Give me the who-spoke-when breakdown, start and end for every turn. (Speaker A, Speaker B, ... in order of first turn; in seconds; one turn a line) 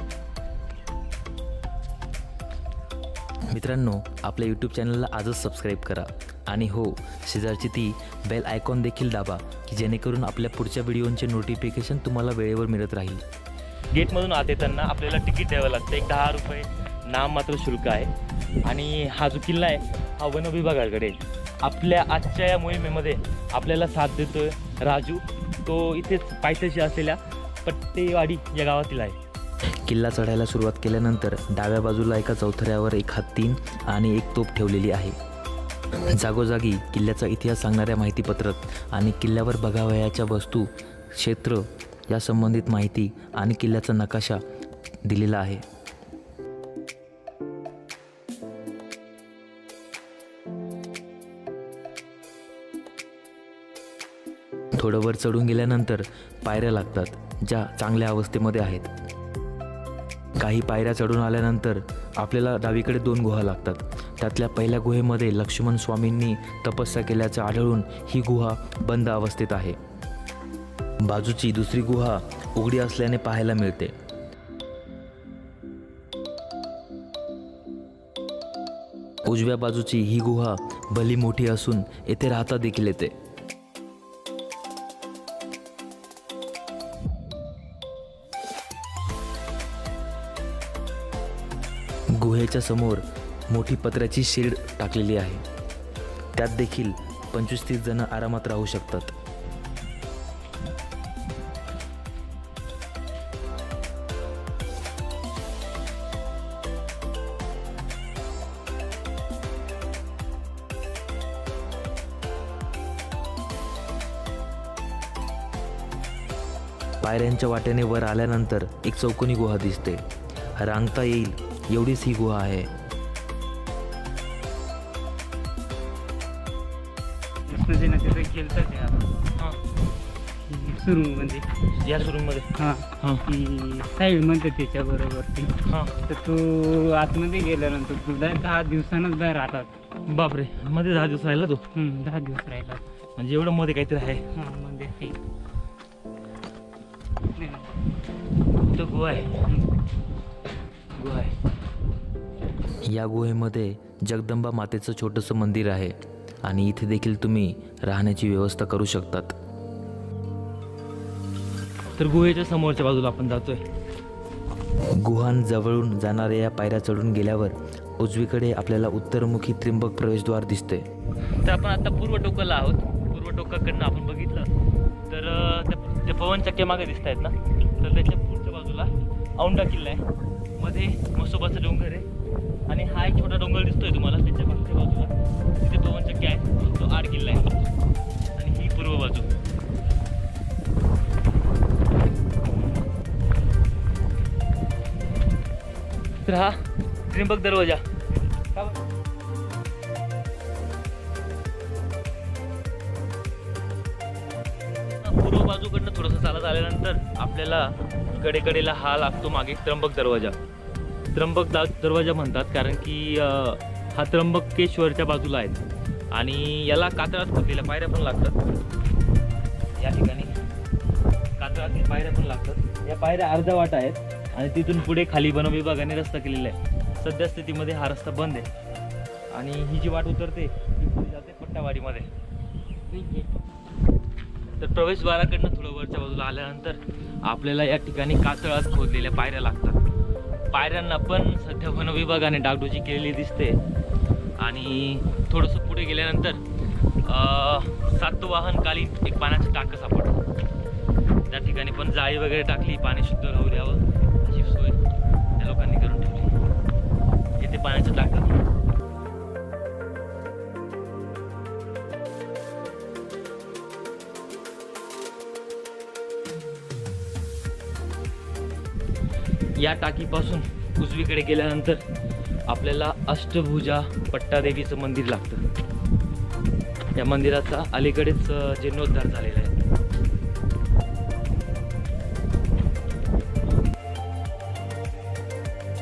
Speaker A: 3.5-13.2
Speaker B: 13.9-18.1
Speaker B: 18.6-29.2
Speaker A: 29.8-35.2
Speaker A: 36.1-44.4
Speaker A: 45.1-45.6
Speaker A: 54.8-58.9
Speaker A: 60.4-69.8
Speaker A: 71.0-74.0
Speaker A: 79.2-83.2
Speaker A: 92.1-95.4
Speaker A: 96.3-99.2
Speaker A: 117.0-120.0
Speaker A: 120.6-122.7
Speaker C: 127.5-129.1
Speaker C: 130.5-131.5
Speaker B: 131.8-133.2
Speaker C: 132.6-139.7
Speaker B: 135.6-135.9
Speaker B: 140.1-141.6
Speaker C: 141.7-142.8
Speaker B: 143.2-144.2
Speaker C: 144.3-145.2
Speaker C: 147.4-147.8
Speaker B: 148.7-149.3
Speaker B: 151.0-151.3
Speaker A: 152.9-159.4
Speaker B: 161.9-163.6
Speaker A: 165.0-170.9
Speaker B: 171.4-174.5
Speaker B: 175.1-180.1
Speaker B: 180.6-182.1
Speaker B: 182.7-187.6
Speaker B: 188.4-189.3
Speaker B: 196.2-197.8
Speaker B: 205.0-210.4
Speaker B: 211.1-218.4
Speaker B: 219.8-220.3
Speaker B: 221.4-228.5
Speaker B: 229.3-232.1
Speaker C: 232.9-233.4
Speaker B: 234.6-239.8
Speaker B: 240.5-243.6
Speaker B: 244.4-246.4
Speaker B: 247.0-250.2
Speaker B: 251.3-254.8
Speaker B: 255.4-256.3
Speaker B: 257.4-258.4
Speaker B: 269.6-271.8
Speaker B: 272.5-275.4
Speaker B: 276.9-279.6